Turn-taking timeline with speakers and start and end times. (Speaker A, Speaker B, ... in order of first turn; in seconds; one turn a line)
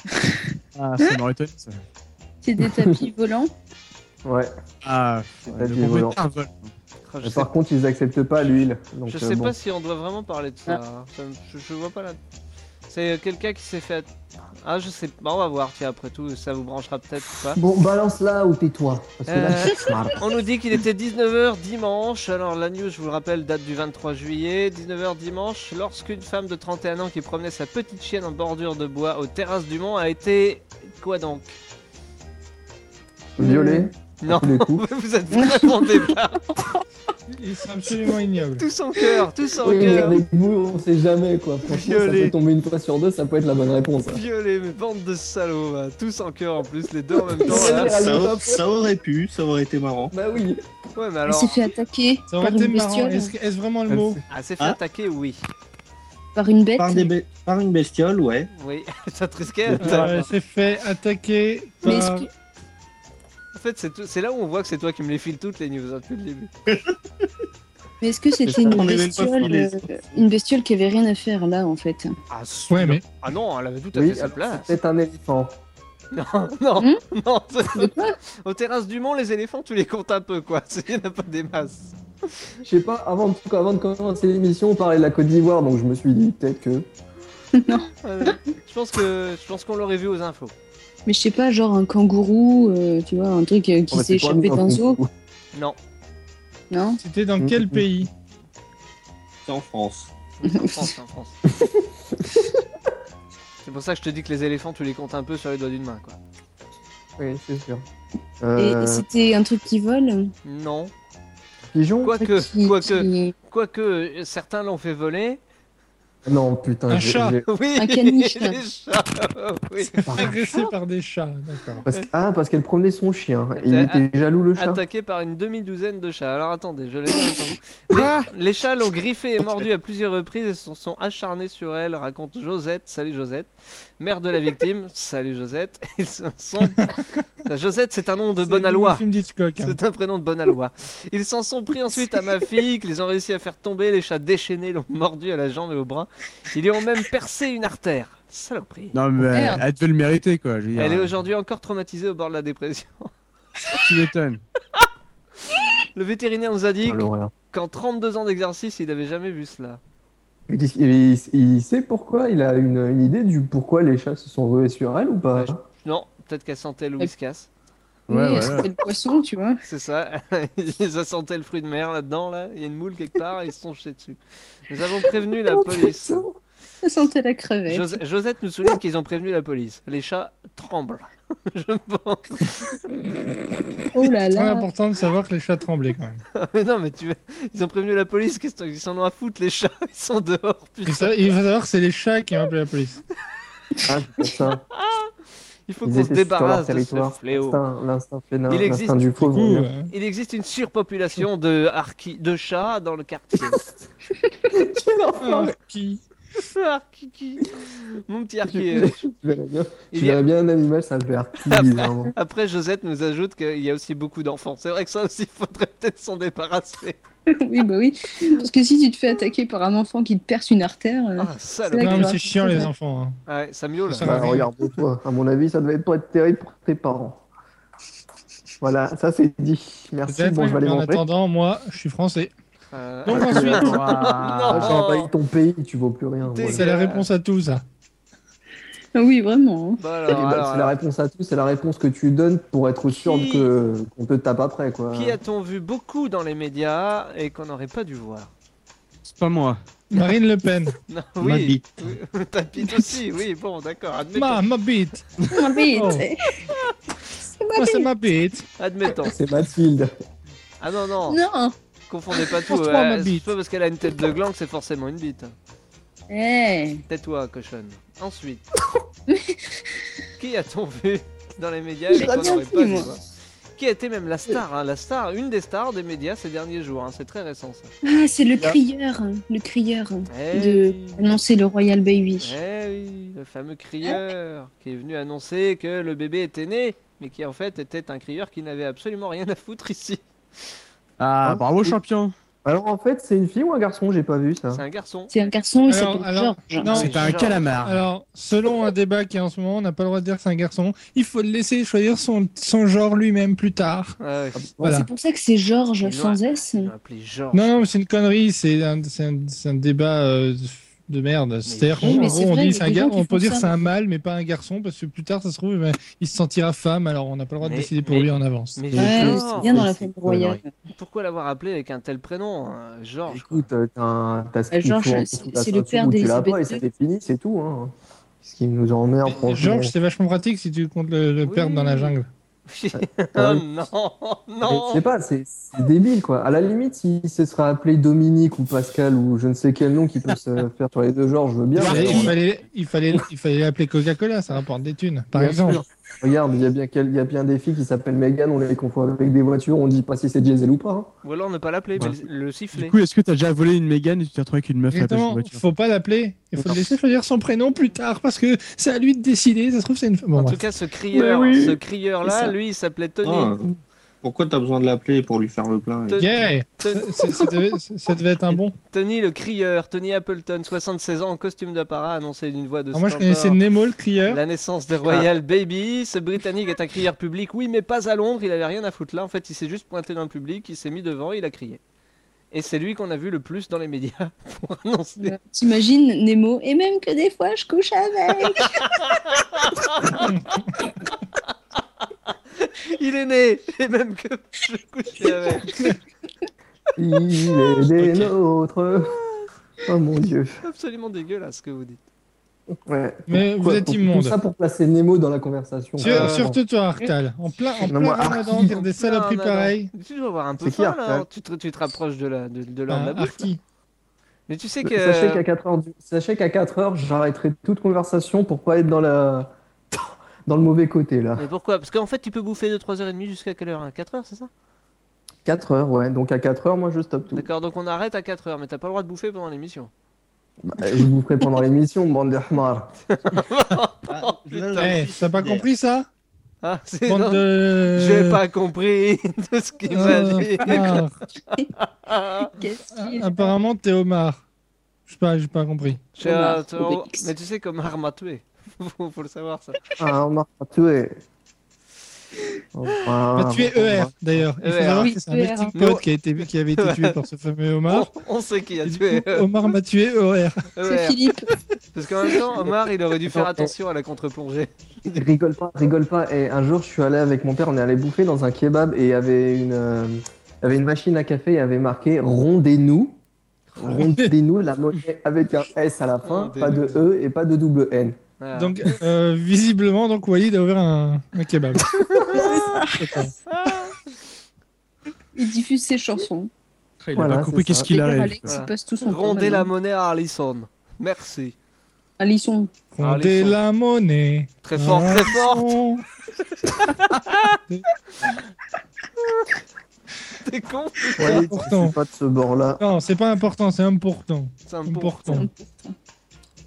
Speaker A: 0.8-1.8
Speaker B: 2.4-3.5
Speaker C: 2.6-3.0
Speaker C: 4.2-4.5
Speaker A: 4.8-6.7
Speaker C: 5.5-6.2
Speaker D: 7.1-7.5
Speaker C: 7.2-9.6
Speaker D: 9.1-12.2
Speaker D: 12.9-17.6
Speaker C: 17.5-20.3
Speaker D: 19.3-31.6
Speaker C: 33.4-34.8
Speaker B: 33.4-33.9
Speaker D: 34.2-36.5
Speaker B: 35.3-36.1
Speaker E: 37.3-38.7
Speaker D: 38.6-40.2
Speaker C: 39.6-44.2
Speaker D: 41.7-42.3
Speaker D: 44.1-48.0
Speaker C: 47.4-48.6
Speaker F: 47.7-50.1
Speaker C: 50.1-50.6
Speaker D: 51.0-51.6
Speaker B: 51.3-53.3
Speaker E: 52.3-54.2
Speaker C: 53.9-54.2
Speaker D: 54.3-55.4
Speaker B: 56.4-57.1
Speaker F: 56.8-58.5
Speaker D: 58.5-60.3
Speaker C: 59.7-60.2
Speaker E: 59.8-62.3
Speaker B: 61.8-62.3
Speaker D: 63.5-66.5
Speaker F: 66.7-66.9
Speaker B: 68.0-72.1
Speaker C: 68.5-68.9
Speaker F: 68.6-70.3
Speaker D: 72.3-74.7
Speaker E: 72.7-73.0
Speaker C: 73.9-75.6
Speaker D: 76.1-81.9
Speaker B: 77.8-78.2
Speaker C: 82.6-86.9
Speaker B: 87.5-88.4
Speaker D: 88.0-90.5
Speaker B: 91.1-95.0
Speaker C: 93.9-95.1
Speaker B: 96.7-97.0
Speaker E: 97.0-98.1
Speaker C: 97.4-97.9
Speaker F: 99.5-100.1
Speaker D: 100.4-101.4
Speaker B: 100.4-100.9
Speaker C: 101.5-102.6
Speaker D: 103.7-106.2
Speaker C: 107.2-107.8
Speaker C: 108.4-109.1
Speaker B: 108.6-110.3
Speaker D: 110.5-110.9
Speaker C: 111.7-112.2
Speaker D: 112.0-115.4
Speaker B: 112.2-113.3
Speaker C: 116.2-117.5
Speaker E: 116.9-117.4
Speaker D: 117.5-120.6
Speaker B: 117.8-118.6
Speaker E: 120.0-121.9
Speaker C: 120.0-120.4
Speaker C: 121.9-124.8
Speaker D: 123.6-124.0
Speaker D: 124.5-136.9
Speaker E: 127.9-128.3
Speaker D: 137.4-139.0
Speaker E: 138.4-139.8
Speaker D: 139.6-149.0
Speaker A: 148.9-151.1
Speaker B: 149.3-149.6
Speaker D: 150.8-153.1
Speaker A: 153.8-154.4
Speaker D: 155.5-159.8
Speaker C: 156.8-157.3
Speaker C: 160.5-165.6
Speaker D: 165.3-167.5
Speaker A: 168.1-168.7
Speaker B: 168.1-169.6
Speaker D: 169.7-176.2
Speaker B: 175.5-175.9
Speaker C: 176.0-176.3
Speaker B: 176.8-178.0
Speaker D: 177.7-182.8
Speaker B: 183.9-184.7
Speaker E: 184.3-186.2
Speaker D: 186.3-191.2
Speaker E: 190.9-193.0
Speaker C: 193.9-194.7
Speaker D: 194.7-195.1
Speaker D: 195.7-197.6
Speaker C: 195.8-199.7
Speaker D: 198.5-203.7
Speaker E: 199.2-199.9
Speaker C: 204.5-205.6
Speaker E: 205.2-206.0
Speaker D: 206.4-209.0
Speaker C: 208.4-212.1
Speaker D: 209.9-210.2
Speaker D: 211.5-217.0
Speaker B: 217.3-222.7
Speaker D: 221.2-222.2
Speaker E: 221.8-223.2
Speaker D: 223.3-224.4
Speaker E: 223.9-224.5
Speaker C: 224.0-227.2
Speaker C: 228.6-231.0
Speaker E: 230.1-232.3
Speaker D: 232.7-235.1
Speaker E: 233.1-233.8
Speaker C: 233.1-233.8
Speaker A: 233.5-234.8
Speaker C: 234.5-236.7
Speaker D: 236.2-237.1
Speaker E: 236.5-237.6
Speaker B: 238.9-239.8
Speaker D: 239.8-240.8
Speaker C: 240.1-245.2
Speaker D: 242.9-243.5
Speaker D: 244.9-248.3
Speaker A: 249.0-249.6
Speaker E: 249.9-250.8
Speaker D: 250.9-254.4
Speaker F: 251.2-251.8
Speaker E: 254.1-255.1
Speaker B: 255.3-256.4
Speaker E: 255.7-256.1
Speaker B: 257.4-257.9
Speaker E: 257.6-258.5
Speaker D: 258.6-259.1
Speaker C: 259.0-259.9
Speaker D: 260.6-261.2
Speaker B: 261.1-261.6
Speaker D: 261.9-265.3
Speaker E: 262.5-263.3
Speaker B: 266.1-266.8
Speaker D: 266.9-268.4
Speaker B: 269.1-269.7
Speaker D: 270.2-273.0
Speaker B: 271.9-272.9
Speaker D: 273.6-277.7
Speaker B: 277.8-282.4
Speaker D: 280.1-281.0
Speaker D: 282.2-290.0
Speaker A: 291.0-292.1
Speaker C: 291.2-291.8
Speaker C: 292.4-294.6
Speaker D: 294.5-295.1
Speaker B: 295.1-296.7
Speaker E: 295.7-304.0
Speaker D: 296.6-297.4
Speaker A: 296.7-297.8
Speaker D: 304.0-304.4
Speaker C: 304.4-304.8
Speaker E: 304.6-304.9
Speaker B: 304.6-306.7
Speaker D: 305.8-307.6
Speaker E: 307.3-318.7
Speaker D: 311.4-312.1
Speaker C: 311.8-312.1
Speaker B: 311.8-313.7
Speaker D: 317.4-319.7
Speaker C: 318.7-320.4
Speaker B: 318.8-320.5
Speaker D: 320.7-323.5
Speaker C: 323.1-329.7
Speaker B: 324.5-326.6
Speaker E: 329.1-332.1
Speaker D: 331.2-331.9
Speaker D: 332.5-334.8
Speaker C: 332.7-333.4
Speaker C: 334.4-342.2
Speaker E: 341.6-345.6
Speaker D: 341.6-342.1
Speaker C: 345.1-350.9
Speaker D: 351.0-352.8
Speaker A: 352.5-355.4
Speaker E: 354.7-360.4
Speaker D: 360.1-363.4
Speaker C: 360.9-361.6
Speaker F: 363.0-366.1
Speaker D: 365.9-367.1
Speaker E: 366.0-368.6
Speaker D: 368.3-373.4
Speaker E: 372.7-374.2
Speaker D: 374.1-381.6
Speaker D: 382.3-385.2
Speaker B: 385.0-388.8
Speaker D: 388.4-391.3
Speaker D: 392.1-395.8
Speaker C: 396.8-399.0
Speaker D: 397.8-398.1
Speaker C: 399.6-400.4
Speaker D: 400.4-401.8
Speaker C: 402.5-406.4
Speaker E: 403.1-404.2
Speaker E: 405.8-409.7
Speaker D: 405.8-406.3
Speaker C: 407.6-408.6
Speaker D: 408.3-413.3
Speaker C: 410.4-411.1
Speaker E: 412.7-413.4
Speaker D: 414.3-415.2
Speaker C: 414.6-421.3
Speaker D: 421.2-424.3
Speaker C: 425.2-427.3
Speaker D: 427.1-429.7
Speaker C: 430.4-432.8
Speaker D: 432.9-434.8
Speaker F: 433.9-435.5
Speaker E: 434.6-435.9
Speaker D: 436.4-442.3
Speaker E: 436.9-438.2
Speaker E: 439.7-441.0
Speaker B: 442.4-443.4
Speaker E: 442.7-444.2
Speaker E: 444.9-445.8
Speaker D: 446.0-449.6
Speaker B: 446.0-447.1
Speaker C: 449.8-451.0
Speaker C: 452.5-454.2
Speaker E: 453.1-457.9
Speaker D: 454.4-454.9
Speaker B: 454.8-455.5
Speaker D: 455.5-455.9
Speaker D: 456.6-457.0
Speaker D: 457.7-459.3
Speaker E: 458.6-460.4
Speaker D: 460.5-461.0
Speaker B: 460.6-461.3
Speaker D: 461.7-465.0
Speaker C: 463.1-463.5
Speaker C: 464.9-473.0
Speaker C: 473.6-478.0
Speaker E: 473.6-474.1
Speaker D: 476.0-476.8
Speaker D: 478.2-478.8
Speaker E: 478.4-483.1
Speaker D: 481.8-482.3
Speaker D: 483.3-483.8
Speaker B: 485.2-486.3
Speaker A: 486.8-488.3
Speaker C: 486.9-487.7
Speaker B: 487.7-489.5
Speaker D: 488.3-491.4
Speaker B: 492.0-492.5
Speaker E: 492.7-495.8
Speaker D: 492.8-493.4
Speaker D: 494.4-495.5
Speaker D: 496.4-497.3
Speaker D: 499.0-499.3
Speaker D: 500.2-501.3
Speaker C: 501.0-502.6
Speaker E: 501.0-501.8
Speaker E: 502.6-505.3
Speaker D: 504.5-505.3
Speaker B: 505.1-505.7